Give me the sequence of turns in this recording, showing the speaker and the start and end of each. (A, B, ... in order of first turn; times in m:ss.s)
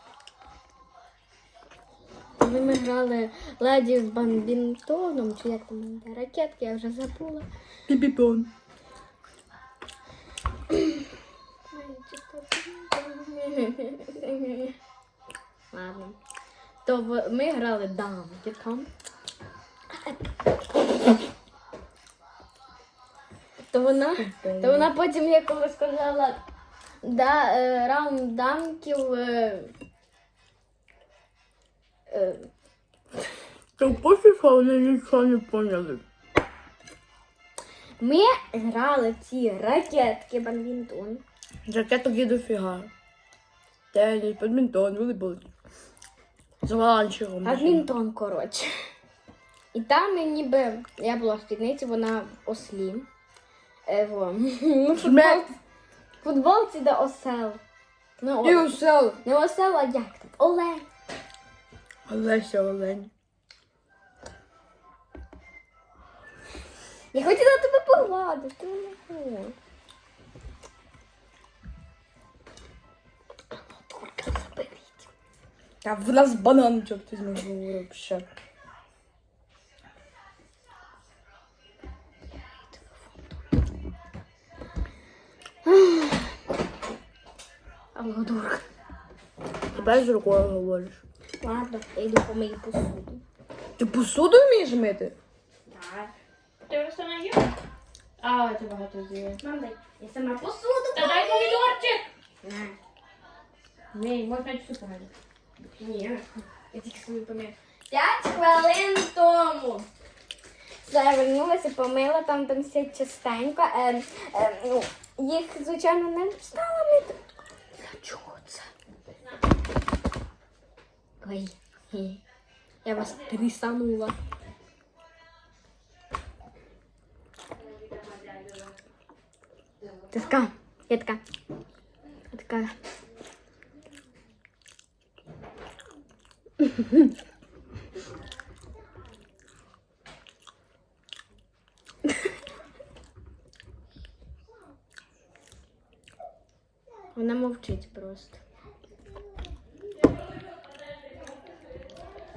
0:02.4-0:07.5 A
0:07.9-0:08.5 B
0:11.7-0:14.8 A
0:15.7-0:16.2 A
0:16.8-0:18.9 A
0:19.9-0:20.2 A
0:23.7-0:26.4 A
0:24.2-0:24.9 B
0:27.0-0:29.7 A
0:32.1-0:32.5 A
0:33.8-0:36.0 B
0:38.0-0:41.2 A
0:41.7-0:42.9 B
0:43.9-0:45.5 B
0:46.6-0:47.9 B
0:47.4-0:48.8 A
0:49.7-0:53.1 A
0:53.9-0:55.5 A
0:55.0-0:55.5 B
0:56.2-0:57.6 A
0:58.2-1:00.9 A
0:58.4-0:59.2 B
1:02.1-1:03.1 B
1:07.1-1:09.6 A
1:13.5-1:15.1 A
1:15.8-1:18.3 B
1:22.7-1:23.2 A
1:25.6-1:26.4 A
1:28.0-1:28.6 A
1:29.7-1:31.0 B
1:29.7-1:30.0 A
1:31.4-1:33.2 A
1:33.8-1:35.2 B
1:35.7-1:36.1 A
1:36.7-1:37.6 C
1:38.2-1:39.1 C
1:39.3-1:41.8 A
1:41.0-1:42.1 C
1:42.4-1:42.8 A
1:44.0-1:45.1 C
1:45.8-1:49.9 A
1:50.8-1:57.3 A
1:57.8-1:58.7 A
2:01.2-2:02.2 A
2:02.8-2:03.5 A
2:03.3-2:04.1 B
2:07.9-2:08.7 C
2:10.1-2:11.2 A
2:12.3-2:12.8 A
2:27.1-2:28.4 A